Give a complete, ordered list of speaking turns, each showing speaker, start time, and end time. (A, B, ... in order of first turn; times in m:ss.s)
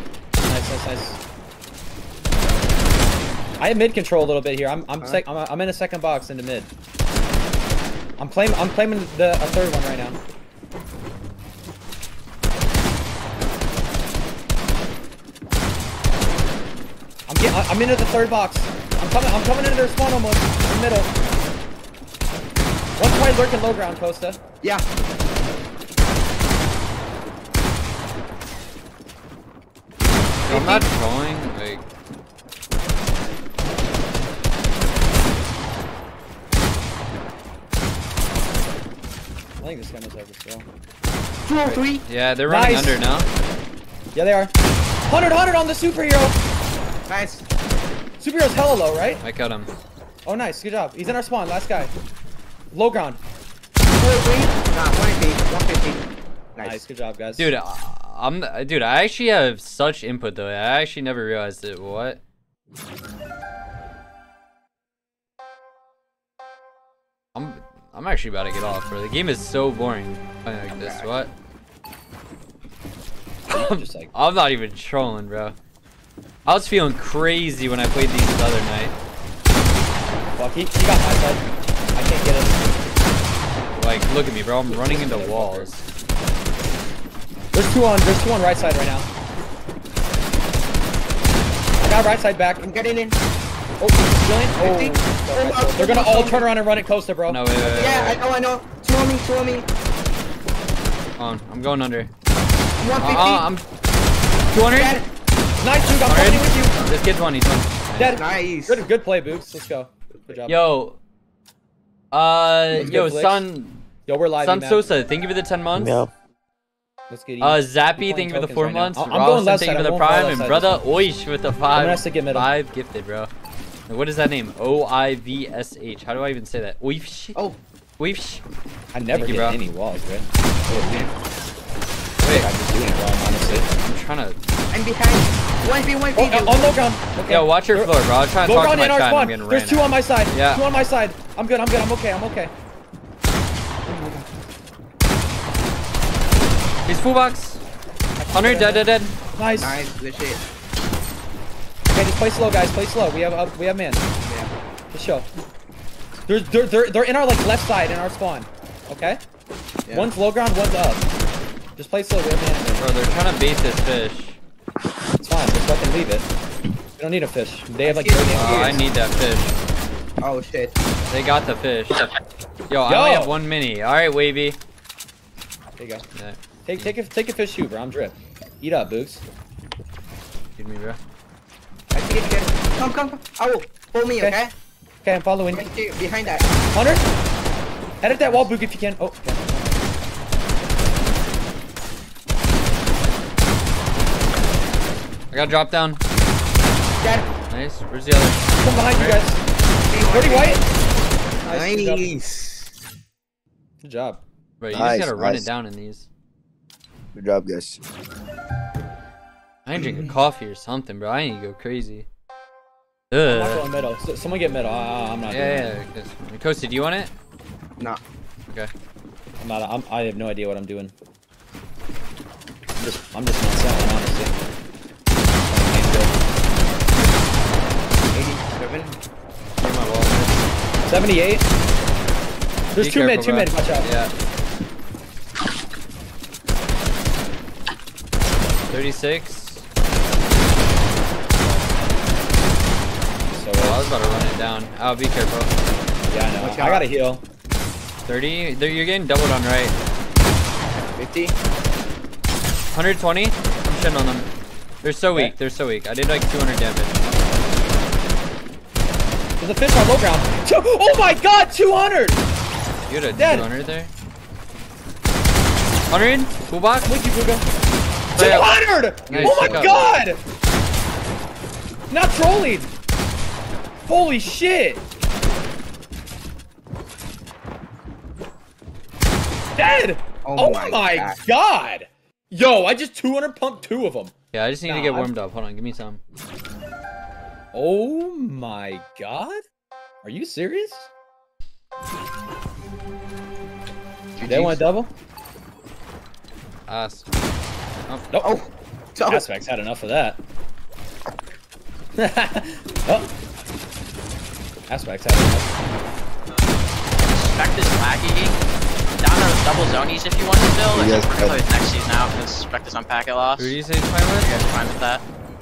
0:00.4-0:01.2 A
0:03.6-0:06.7 A
0:08.2-0:10.2 A
0:17.3-0:21.1 A
0:23.0-0:24.4 A
0:30.4-0:31.8 B
0:30.5-0:30.8 C
0:39.6-0:40.7 A
0:41.4-0:42.0 C
0:41.6-0:43.3 B
0:42.4-0:43.0 A
0:44.1-0:44.5 A
0:45.1-0:46.4 A
0:47.1-0:47.4 C
0:48.2-0:49.2 A
0:49.2-0:49.7 B
0:50.2-0:51.9 A
0:52.7-0:53.2 A
0:53.9-0:56.8 C
0:56.6-0:57.5 A
0:57.4-1:02.2 B
1:07.3-1:11.3 B
1:10.7-1:11.1 C
1:13.5-1:14.1 A
1:13.5-1:15.5 B
1:16.4-1:18.9 B
1:20.4-1:22.8 A
1:23.7-1:25.8 B
1:24.7-1:25.7 A
1:27.5-1:29.1 A
1:31.8-1:32.6 A
1:32.6-1:33.2 C
1:33.8-1:38.0 A
1:34.6-1:36.5 C
1:37.3-1:38.2 B
1:37.7-1:39.7 C
1:41.2-1:42.1 B
1:42.8-1:43.5 C
1:43.0-1:43.6 B
1:44.5-1:45.0 B
1:44.7-1:45.1 C
1:45.6-1:46.8 A
1:46.0-1:48.2 B
1:48.0-1:50.6 A
1:48.1-1:48.8 C
1:50.4-1:51.0 B
1:52.1-1:53.9 B
1:52.7-1:53.4 A
1:54.0-1:54.9 A
1:54.4-1:56.0 B
1:57.1-2:01.1 A
1:57.4-2:03.3 B
2:01.7-2:02.5 A
2:03.9-2:07.4 B
2:08.0-2:08.4 B
2:08.9-2:11.0 A
2:09.1-2:09.6 B
2:10.7-2:11.1 C
2:12.2-2:12.5 B
2:12.3-2:13.7 A
2:13.6-2:14.4 B
2:14.7-2:16.8 C
2:16.2-2:22.5 A
2:17.3-2:20.6 B
2:23.8-2:24.2 C
2:26.8-2:27.6 B
2:28.2-2:29.8 A
2:28.3-2:29.2 B
2:29.6-2:30.4 C
2:31.9-2:34.0 A
2:34.2-2:34.5 C
2:34.9-2:35.3 A
2:36.3-2:39.2 A
2:39.8-2:40.1 C
2:39.9-2:41.1 A
2:41.8-2:43.0 A
2:42.8-2:44.4 B
2:45.2-2:46.3 A
2:47.0-2:48.8 A
2:47.8-2:48.8 C
2:48.3-2:49.5 B
2:50.2-2:50.8 C
2:51.1-2:52.0 B
2:52.7-2:54.6 B
2:52.8-2:53.4 A
2:55.8-2:56.0 A
2:56.1-2:56.9 B
2:56.6-2:59.2 A
3:00.6-3:01.0 B
3:01.9-3:04.5 C
3:05.0-3:05.7 A
3:05.5-3:06.6 C
3:06.7-3:07.1 A
3:08.0-3:09.8 A
3:15.3-3:16.0 B
3:17.0-3:17.3 C
3:17.5-3:19.2 B
3:18.6-3:19.4 A
3:19.9-3:20.6 C
3:20.1-3:20.6 A
3:21.4-3:22.1 A
3:21.5-3:22.6 C
3:23.8-3:24.2 A
3:24.6-3:26.1 B
3:24.7-3:25.5 D
3:27.1-3:27.8 D
3:29.6-3:32.0 B
3:29.8-3:30.1 C
3:33.1-3:33.6 B
3:33.2-3:35.7 A
3:35.3-3:37.1 B
3:39.4-3:40.9 A
3:42.8-3:44.3 A
3:45.4-3:46.1 A
3:48.1-3:49.0 C
3:49.6-3:50.5 B
3:50.8-3:51.4 A
3:52.7-3:53.9 A
3:52.8-3:54.1 B
3:58.7-3:59.6 B
4:03.3-4:04.0 A
4:03.6-4:05.5 B
4:06.1-4:07.2 A
4:06.4-4:06.9 C
4:08.0-4:09.8 B
4:10.9-4:11.3 C
4:12.7-4:14.3 B
4:14.8-4:17.1 B
4:19.4-4:22.2 A
4:22.9-4:23.9 B
4:23.2-4:23.5 A
4:25.9-4:26.9 B
4:26.8-4:27.4 A
4:28.1-4:29.9 B
4:28.1-4:30.2 A
4:29.1-4:29.9 C
4:31.9-4:32.7 A
4:33.9-4:34.8 A
4:39.6-4:44.1 A
4:40.2-4:41.2 C
4:44.3-4:46.0 B
4:44.6-4:45.1 A
4:47.5-4:49.4 A
4:50.0-4:50.9 A
4:54.2-4:54.7 C
4:54.2-4:54.9 A
4:56.7-4:57.0 B
4:58.2-4:59.2 C
4:59.1-5:00.2 A
5:02.0-5:03.1 A
5:04.7-5:05.5 A
5:07.1-5:08.4 E
5:09.0-5:13.6 E
5:10.7-5:11.4 D
5:13.4-5:14.3 B
5:14.2-5:15.0 E